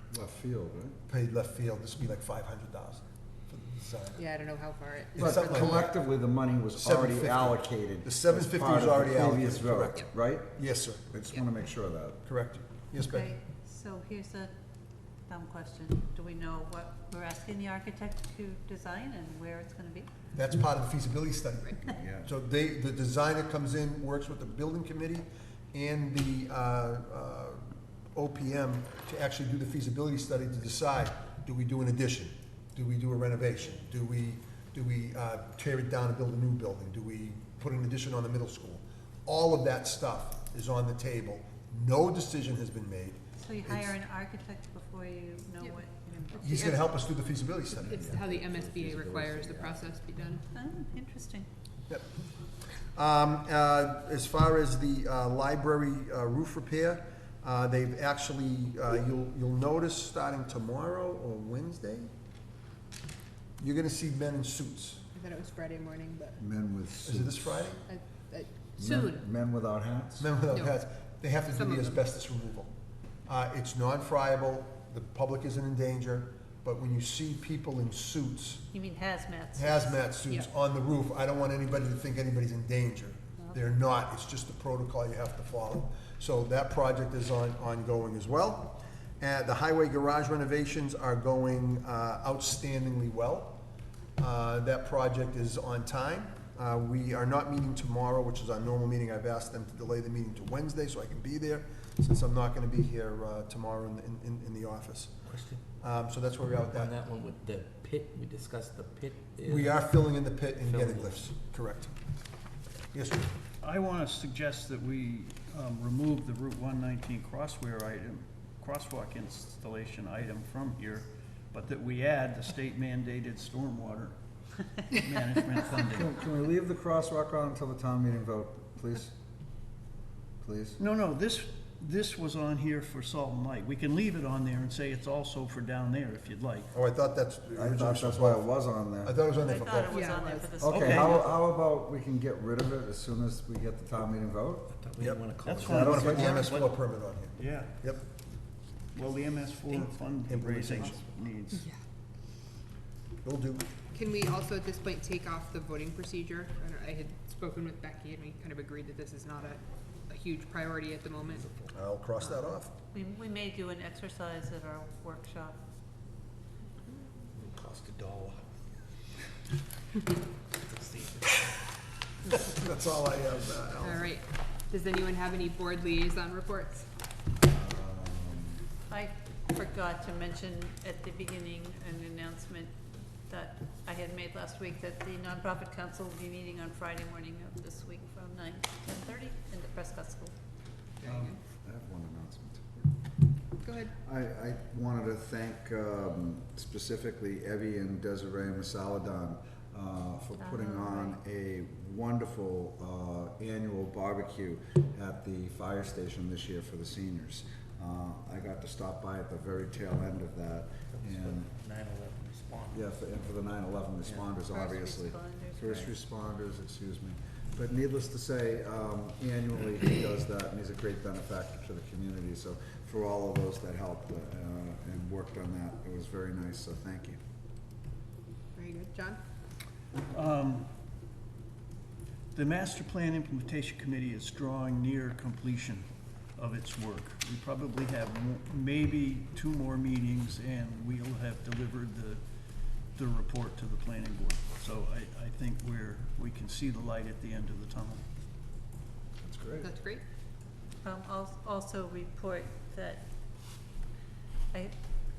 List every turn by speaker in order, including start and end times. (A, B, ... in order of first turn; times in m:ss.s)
0:00.1-0:01.0 A
0:01.1-0:04.2 B
0:04.2-0:05.9 C
0:05.2-0:05.9 B
0:05.2-0:10.5 A
0:06.8-0:11.0 B
0:11.1-0:12.2 A
0:12.2-0:13.4 B
0:13.0-0:14.5 D
0:15.3-0:20.1 D
0:20.3-0:44.0 B
0:22.0-0:22.3 A
0:43.4-0:46.4 D
0:45.6-0:47.0 C
0:46.4-0:48.0 B
0:47.7-0:50.5 C
0:50.5-0:51.5 D
0:52.9-1:02.1 B
1:03.6-1:05.0 B
1:05.1-1:06.4 C
1:06.4-1:07.7 A
1:07.0-1:07.9 B
1:07.8-1:09.2 C
1:08.8-1:10.3 A
1:10.2-1:12.7 B
1:10.5-1:10.8 C
1:11.5-1:12.0 C
1:13.3-1:18.7 B
1:18.7-1:20.2 D
1:19.6-1:33.6 B
1:20.2-1:20.5 C
1:34.2-1:45.1 B
1:45.3-1:45.6 E
1:45.8-1:46.9 B
1:46.5-1:49.9 E
1:49.4-1:51.9 B
1:50.7-1:51.3 E
1:52.9-1:53.3 B
1:53.6-2:04.2 F
2:04.9-2:06.1 F
2:05.8-2:09.1 A
2:10.4-2:10.8 A
2:10.8-2:16.7 F
2:16.7-2:18.5 B
2:17.6-2:19.2 A
2:19.0-2:20.0 B
2:19.3-2:21.4 D
2:19.9-2:20.5 C
2:20.6-2:21.2 F
2:20.6-2:24.7 A
2:24.7-2:26.0 E
2:25.0-2:28.0 B
2:25.4-2:26.8 F
2:25.6-2:26.4 A
2:27.4-2:27.7 F
2:29.0-2:31.6 F
2:30.2-2:31.0 B
2:33.2-2:33.7 B
2:33.9-2:41.5 C
2:41.7-2:42.7 B
2:42.2-2:42.5 C
2:42.9-2:45.6 D
2:47.4-2:48.4 E
2:50.6-2:51.5 E
2:52.3-2:54.1 B
2:53.8-2:56.9 C
2:57.4-2:58.6 A
2:58.9-3:02.7 D
3:03.3-3:10.3 D
3:11.0-3:11.4 C
3:11.0-3:12.6 A
3:13.6-3:13.9 C
3:14.0-3:31.5 A
3:20.4-3:21.2 D
3:30.9-3:32.9 E
3:32.7-3:47.2 A
3:34.0-3:34.3 E
3:34.5-3:35.9 D
3:48.5-3:49.2 C
3:50.1-3:50.7 F
3:52.3-4:02.2 F
4:03.0-4:08.0 F
4:09.2-4:09.7 A
4:09.6-4:10.0 C
4:10.8-4:13.7 D